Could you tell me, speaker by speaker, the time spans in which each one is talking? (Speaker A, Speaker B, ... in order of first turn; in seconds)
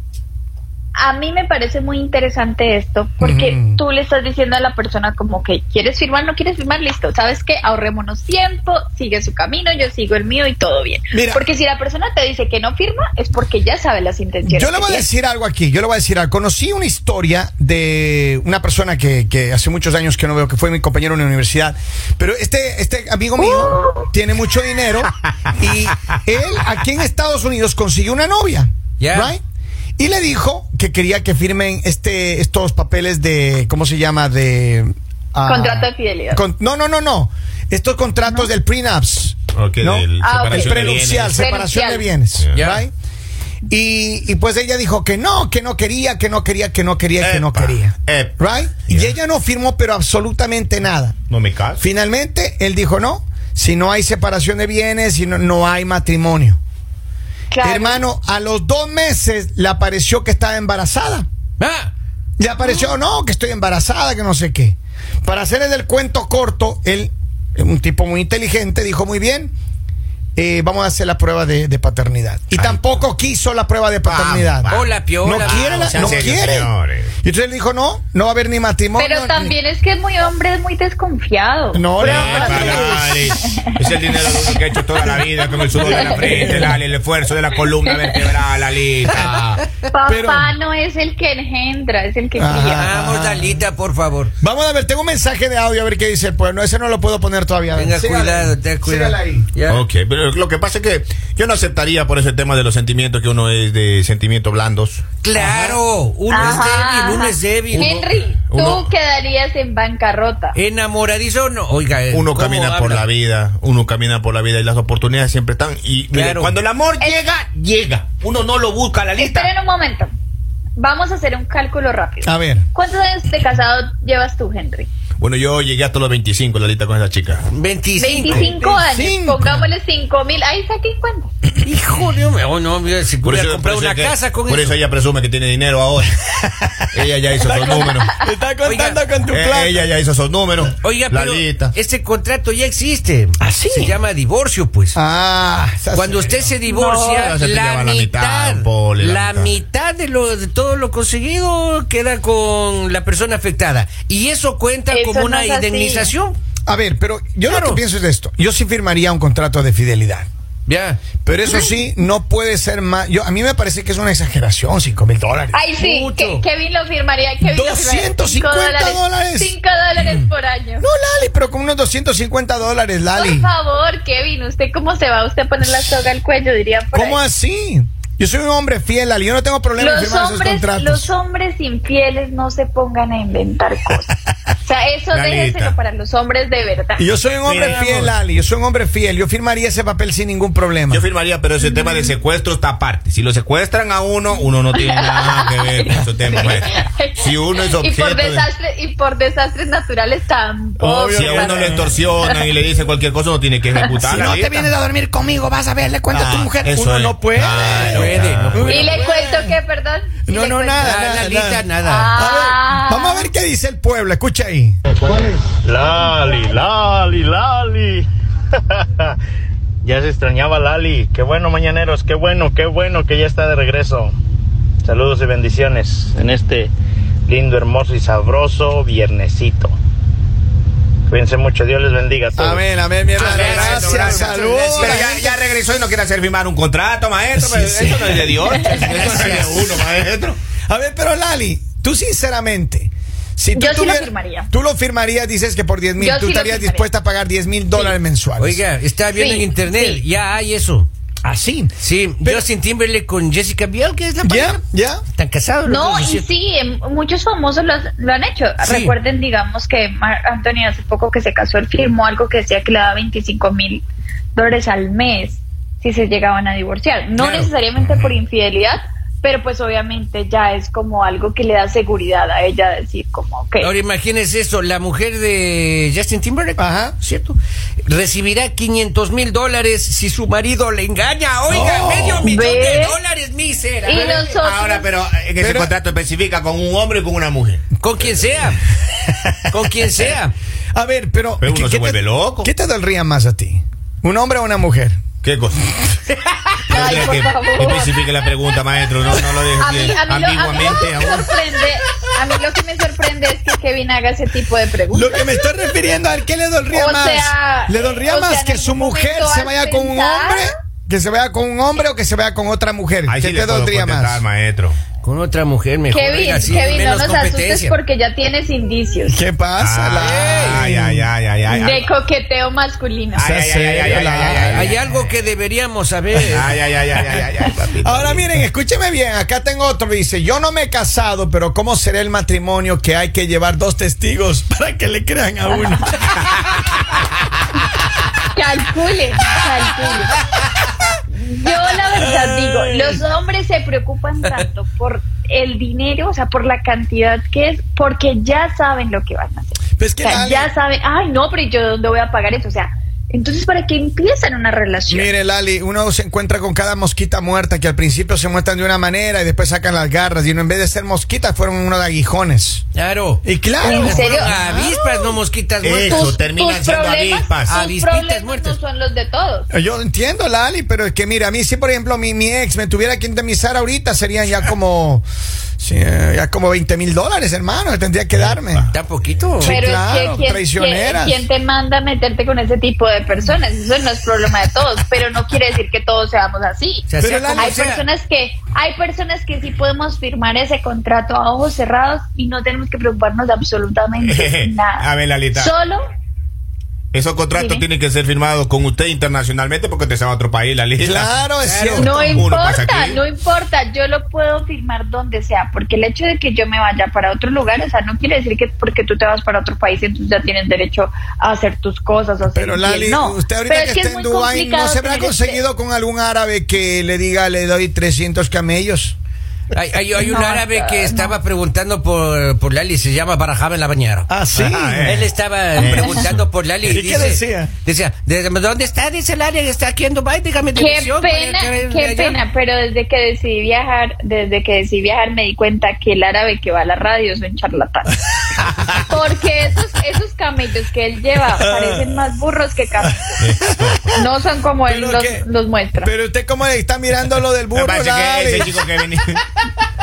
Speaker A: 0.9-15.1, 23.4-24.1, 35.5-36.4, 38.3-38.5, 40.2-42.1, 57.5-58.0, 79.0-83.6, 84.2-84.4, 85.7-86.7, 87.9-88.2, 89.9-92.9, 106.3-110.6, 119.2-120.1, 120.8-124.9, 128.0-131.3, 146.7-147.3, 154.9-156.1, 165.5-170.9, 173.1-177.2, 179.8-184.1, 184.6-187.1, 191.6-192.2, 194.7-202.4, 208.7-211.1, 211.8-213.3, 215.9-216.6, 238.5-238.8, 243.5-244.5, 246.0-246.9, 249.1-250.0, 255.7-263.8, 264.4-273.7, 282.2-283.0, 283.8-284.9, 296.7-298.0, 299.6-305.5, 306.7-310.5, 315.9-319.2, 321.5-323.3, 338.3-340.2, 341.1-355.1, 363.6-364.4, 365.8-369.5, 379.4-395.8, 397.3-397.6, 401.8-415.4, 420.0-421.2, 430.6-437.9, 438.9-443.2, 443.9-445.9
Speaker B: 3.2-3.8, 11.1-11.4, 14.4-29.4, 30.0-42.9, 43.7-51.2, 51.8-56.6, 57.6-61.3, 62.4-69.5, 70.4-76.7, 77.2-79.5, 81.7-83.0, 85.9-86.5, 90.1-90.5, 92.4-93.7, 94.4-99.5, 122.2-122.7, 128.3-129.7, 136.5-136.8, 137.4-139.9, 143.4-144.0, 144.9-146.4, 156.7-160.3, 161.2-165.6, 167.4-170.3, 170.8-173.5, 176.9-181.1, 187.0-191.0, 200.8-202.0, 204.0-209.6, 210.3-214.8, 232.4-235.3, 237.3-238.4, 240.7-248.6, 251.2-252.4, 254.2-255.0, 276.6-277.0, 281.5-282.3, 285.4-285.7, 290.7-295.0, 304.9-314.2, 319.1-321.1, 323.2-324.8, 327.8-336.0, 342.0-343.0, 349.8-350.5, 354.9-362.6, 363.2-364.8, 369.5-375.1, 375.6-378.7, 379.4-381.3, 387.0-387.8, 400.8-402.1, 412.3-419.0, 424.1-425.0, 425.6-426.0, 426.6-427.5, 441.3-442.0, 442.8-444.0, 444.7-445.2, 445.8-448.6
Speaker C: 29.0-29.3, 42.5-42.8, 61.6-61.9, 74.7-76.3, 82.1-83.1, 89.1-89.6, 92.8-94.3, 97.8-99.8, 105.2-108.1, 110.5-113.1, 116.1-116.6, 127.5-128.5, 131.6-134.8, 138.6-139.0, 140.8-145.0, 145.9-156.4, 157.5-157.8, 160.7-161.0, 165.8-166.4, 207.9-208.9, 210.8-212.1, 233.1-235.3, 238.7-239.6, 247.7-250.9, 251.8-254.6, 255.1-256.3, 258.6-258.9, 267.2-267.5, 273.6-284.4, 287.8-288.6, 289.5-290.4, 315.0-317.8, 320.0-320.7, 324.4-326.6, 362.8-366.2, 367.5-368.6, 378.1-379.6, 386.9-387.8, 401.4-402.3, 419.5-424.1, 424.9-432.2
Speaker D: 39.5-41.5, 47.2-48.4, 48.9-49.1, 51.3-51.8, 72.5-73.0, 74.1-77.1, 82.0-89.6, 99.7-105.8, 106.4-106.7, 108.5-108.9, 112.1-119.5, 125.2-127.5, 133.2-136.2, 136.9-138.2, 139.3-141.7, 147.1-149.5, 185.1-185.8, 187.5-188.1, 190.9-198.5, 201.1-204.7, 206.1-208.9, 233.1-240.4, 284.4-287.6, 291.4-292.5, 295.2-295.9, 296.6-301.3, 313.1-314.8, 319.6-321.9, 323.2-324.8, 326.1-328.4, 365.6-367.6, 394.0-395.5, 396.9-401.1, 401.9-403.0, 424.3-425.8, 443.2-444.0, 447.5-449.2
Speaker E: 215.0-218.1, 218.7-219.2, 219.8-224.2, 224.8-226.7, 227.3-229.8, 231.1-232.6